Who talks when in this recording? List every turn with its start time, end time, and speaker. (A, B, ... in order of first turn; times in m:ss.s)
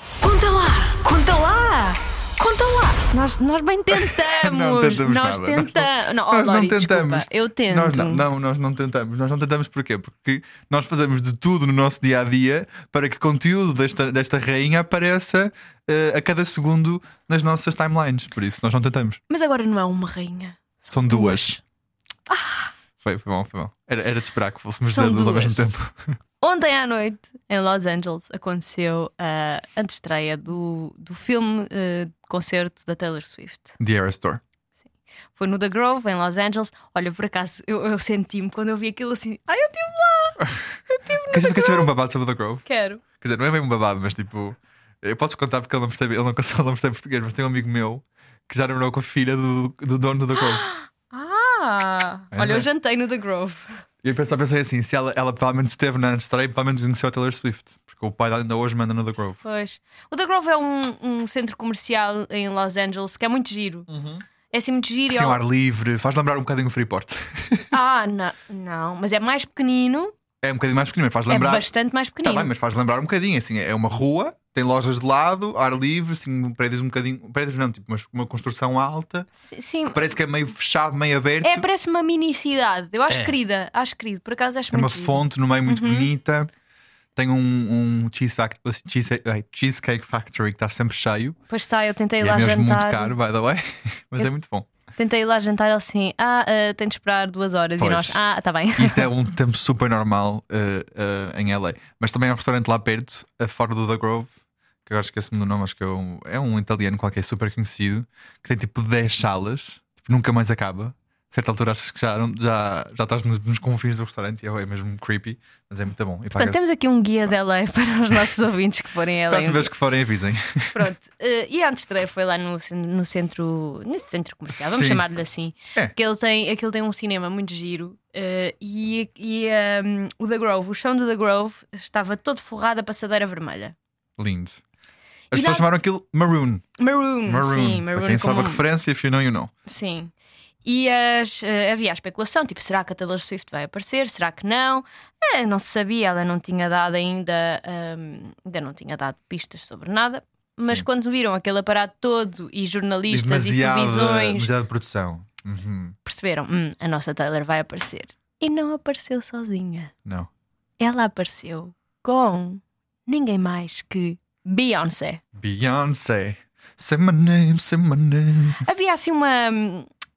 0:00.2-0:03.0 A
0:03.0-0:08.2 B
0:03.9-0:19.2 C
0:19.3-0:21.6 B
0:20.9-0:21.6 C
0:22.3-0:22.7 B
0:23.0-0:26.2 C
0:24.8-0:25.6 B
0:26.4-0:33.7 B
0:33.8-0:34.4 C
0:35.3-0:41.9 B
0:41.3-0:50.7 C
0:42.6-0:43.0 B
0:50.4-0:53.8 B
0:52.3-0:52.7 C
0:54.0-0:59.4 C
0:59.4-1:03.9 B
1:03.9-1:04.2 C
1:04.5-1:05.4 B
1:05.1-1:07.7 C
1:07.7-1:10.1 B
1:10.4-1:11.7 C
1:11.3-1:12.5 B
1:12.2-1:19.3 C
1:19.3-1:20.0 B
1:19.9-1:21.7 C
1:21.4-1:26.1 B
1:23.1-1:23.3 C
1:24.7-1:26.5 C
1:27.2-1:31.4 C
1:31.5-1:33.1 B
1:32.2-1:34.7 C
1:35.0-1:39.1 B
1:37.8-1:38.2 C
1:38.8-1:44.3 C
1:44.8-1:56.6 C
1:56.3-1:59.7 B
1:59.3-2:00.8 C
2:00.7-2:13.7 B
2:04.5-2:05.0 C
2:14.2-2:14.6 C
2:15.3-2:16.6 C
2:15.3-2:15.7 B
2:16.8-2:18.6 B
2:17.2-2:19.5 C
2:19.6-2:20.1 B
2:20.6-2:34.5 B
2:33.1-2:36.0 C
2:36.0-2:39.9 B
2:40.8-2:45.2 B
2:45.3-2:48.6 C
2:48.6-2:49.9 B